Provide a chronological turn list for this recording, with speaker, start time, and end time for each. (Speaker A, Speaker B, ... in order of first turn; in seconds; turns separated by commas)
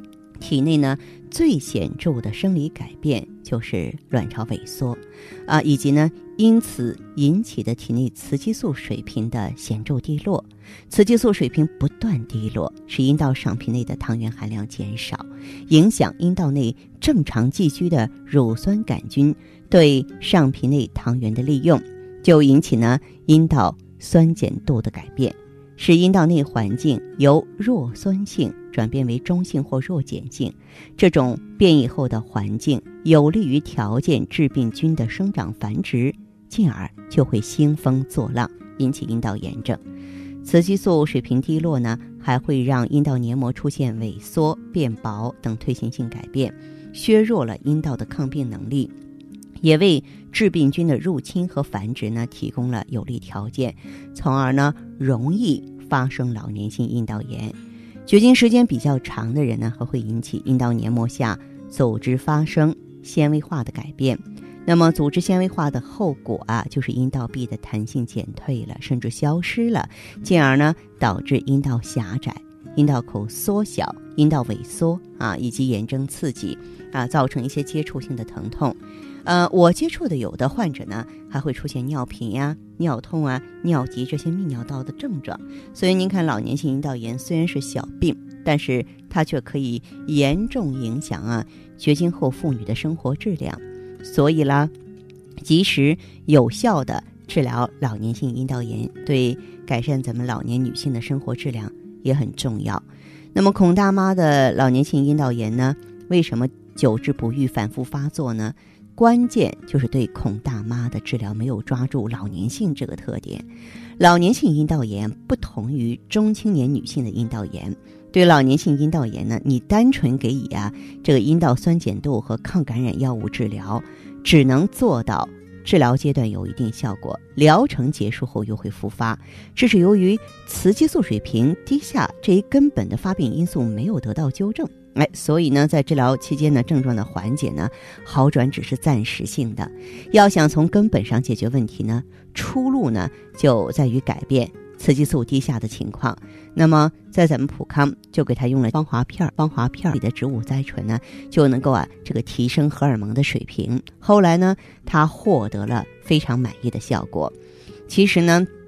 Speaker A: 0.4-39.8, Speaker A: 40.4-48.9, Speaker A: 49.6-57.5, Speaker A: 58.1-94.7, Speaker A: 95.4-113.5, Speaker A: 114.0-157.3, Speaker A: 157.9-158.5